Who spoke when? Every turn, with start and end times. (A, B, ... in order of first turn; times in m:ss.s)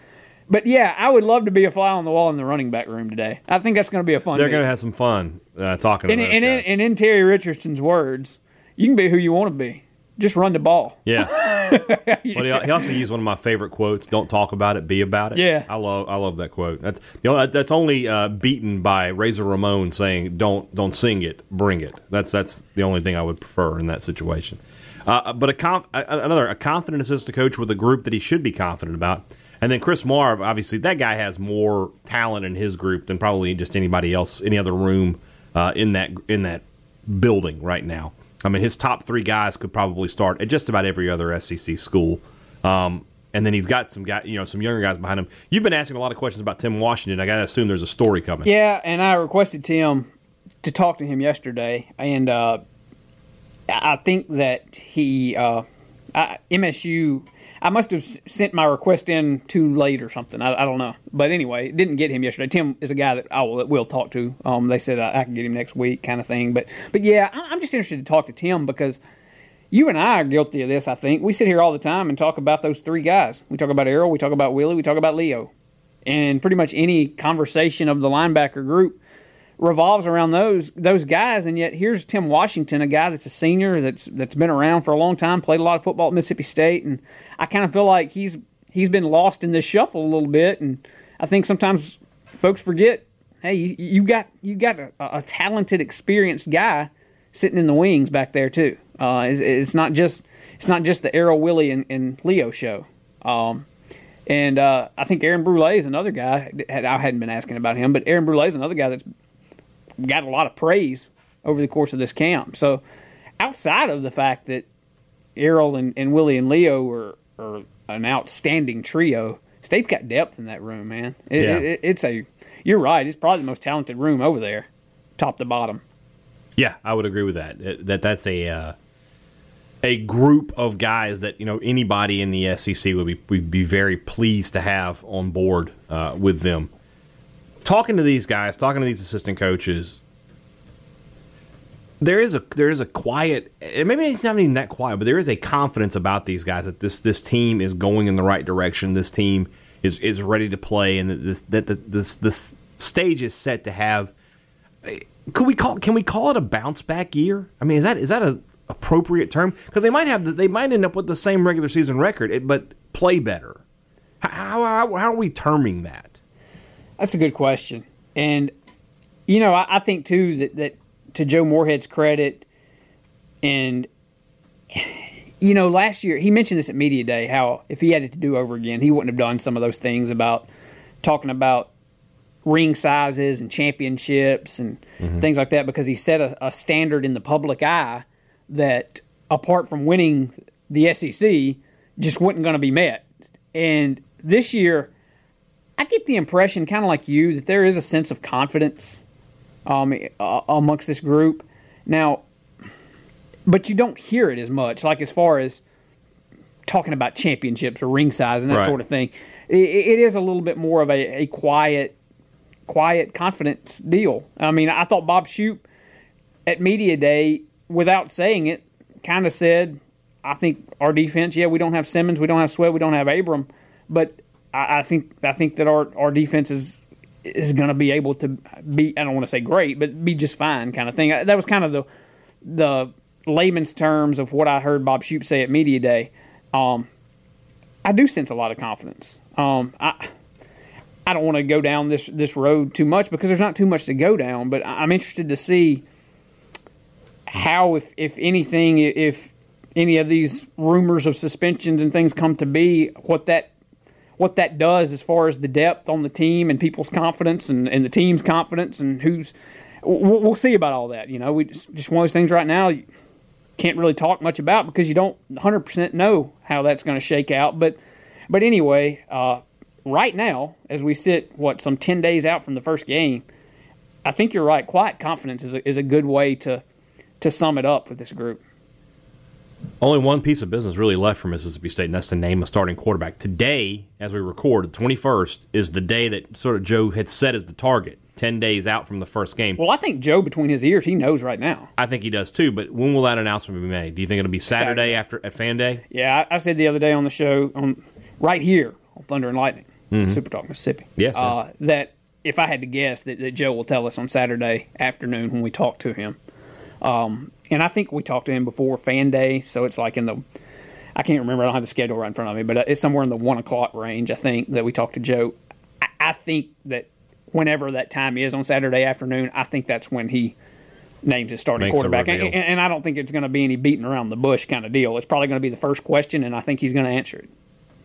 0:00.5-0:04.6 A
0:04.3-0:06.7 B
0:06.1-0:12.8 A
0:11.1-0:11.5 B
0:12.3-0:48.5 B
0:15.4-0:15.7 A
0:48.4-0:50.1 A
0:50.6-0:52.6 A
0:53.7-1:09.0 A
1:09.7-1:15.5 A
1:16.1-1:19.0 A
1:19.6-1:43.7 A
1:44.3-1:49.0 A
1:50.0-1:52.8 A
1:53.4-1:54.6 A
1:55.4-2:05.8 A
2:01.4-2:01.7 B
2:06.6-2:08.8 B
2:09.8-2:16.7 B
2:17.6-2:20.0 B
2:22.0-2:34.1 B
2:34.8-2:43.6 B
2:44.2-2:46.1 B
2:47.0-2:48.5 A
2:49.3-2:52.4 A
2:53.4-2:53.9 A
2:54.7-3:00.5 A
3:01.0-3:01.7 A
3:02.4-3:14.9 A
3:05.0-3:05.2 B
3:15.8-3:19.0 A
3:19.7-3:22.2 A
3:23.5-3:25.6 A
3:26.7-3:32.0 A
3:28.5-3:28.8 B
3:32.7-3:35.6 A
3:36.5-3:51.9 A
3:52.4-3:56.9 A
3:57.8-4:00.1 A
4:01.1-4:05.8 A
4:07.3-4:13.5 A
4:14.2-4:22.8 A
4:23.6-4:27.8 A
4:28.3-4:33.2 A
4:34.0-4:36.6 A
4:37.2-4:38.4 A
4:39.8-4:49.6 B
4:49.6-4:51.7 A
4:51.8-4:55.8 B
4:54.5-4:55.0 A
4:55.9-5:06.2 A
4:59.9-5:00.2 B
5:01.0-5:01.4 B
5:06.8-5:10.2 A
5:11.0-5:15.4 A
5:16.0-5:20.4 A
5:21.0-5:27.3 A
5:21.6-5:22.4 B